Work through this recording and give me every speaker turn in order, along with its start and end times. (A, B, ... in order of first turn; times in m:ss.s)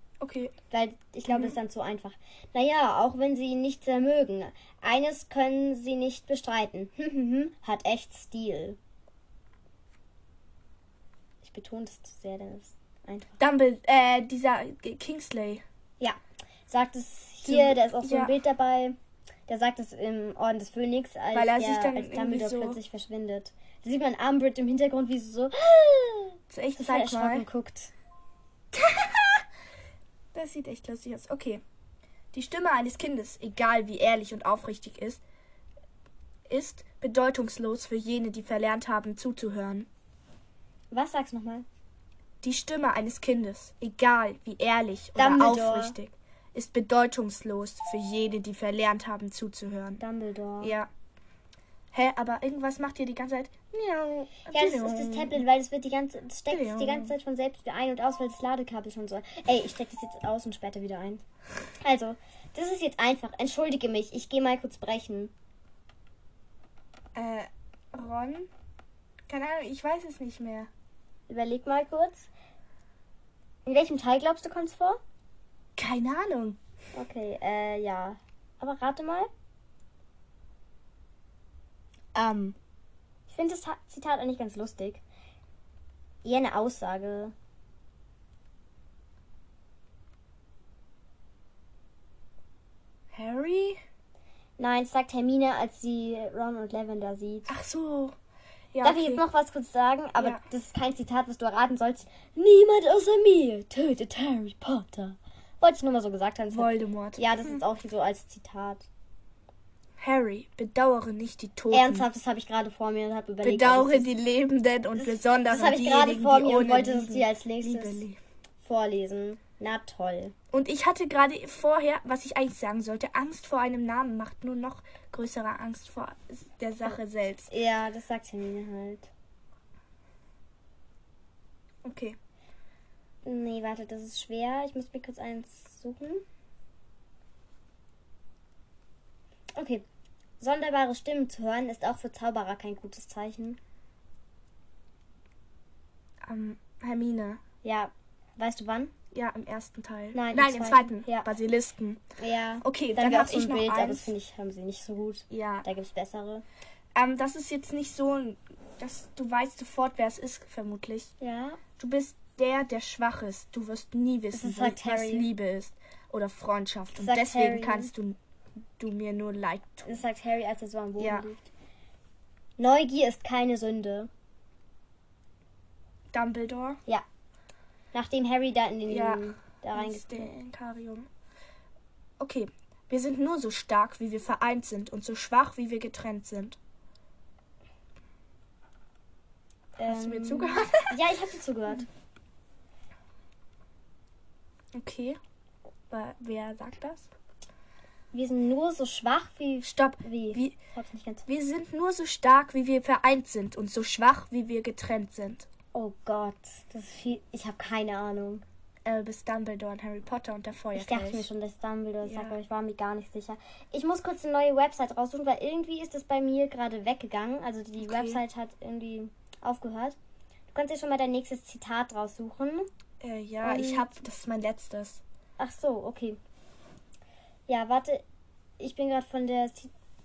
0:00.2-0:00.5 A
0:00.7-0:08.8 B
0:01.3-0:01.6 A
0:11.4-0:13.4 B
0:13.4-0:15.6 A
0:16.7-0:27.9 B
0:17.4-0:18.3 A
0:21.3-0:22.8 A
0:26.5-0:27.4 A
0:28.7-0:29.4 A
0:30.3-0:31.6 A
0:32.3-0:35.2 A
0:36.5-0:39.9 A
0:40.9-0:41.7 B
0:42.4-0:50.0 A
0:45.2-0:46.0 B
0:50.0-0:50.8 B
0:50.6-0:50.9 A
0:51.9-0:55.4 A
0:54.5-1:01.2 B
0:56.5-0:57.1 A
1:01.8-1:05.3 B
1:07.2-1:08.5 A
1:09.3-1:10.7 A
1:11.3-1:12.3 B
1:13.6-1:15.0 B
1:15.8-1:16.6 A
1:16.9-1:19.3 B
1:22.2-1:22.6 A
1:23.3-1:25.0 B
1:26.2-1:27.3 B
1:33.1-1:33.8 A
1:34.6-1:37.5 B
1:37.5-1:38.2 A
1:38.7-1:39.2 A
1:38.8-1:48.9 B
1:46.5-1:47.6 A
1:50.0-1:52.1 A
1:51.7-1:54.1 B
1:53.4-1:58.2 A
1:55.0-1:58.0 B
1:58.6-2:00.3 B
2:00.5-2:07.5 A
2:07.5-2:09.1 B
2:11.8-2:12.2 A
2:13.2-2:16.2 B
2:19.6-2:19.8 B
2:20.4-2:23.6 B
2:26.2-2:27.4 A
2:27.6-2:28.9 B
2:29.1-2:32.0 A
2:30.1-2:31.3 B
2:32.2-2:36.4 B
2:32.6-2:34.1 A
2:35.3-2:35.7 A
2:37.0-2:41.1 A
2:41.2-2:41.6 B
2:41.8-2:48.2 A
2:44.3-2:45.3 B
2:46.9-2:47.9 B
2:48.8-2:50.0 A
2:49.9-2:51.5 B
2:51.0-2:51.3 A
2:52.6-2:54.1 B
2:56.1-2:56.8 A
2:57.9-3:00.3 B
2:58.9-3:01.1 A
3:02.2-3:06.6 A
3:09.8-3:11.9 B
3:09.9-3:11.0 A
3:14.7-3:15.2 A
3:15.9-3:17.1 A
3:18.1-3:21.2 B
3:19.6-3:20.6 A
3:21.3-3:25.5 A
3:25.7-3:28.4 B
3:28.8-3:31.3 A
3:30.8-3:40.0 B
3:32.0-3:32.4 A
3:37.8-3:38.2 A
3:40.5-3:42.7 B
3:43.0-3:45.0 A
3:43.4-3:43.9 B
3:45.4-3:46.2 B
3:47.5-3:48.0 B
3:48.6-3:49.7 B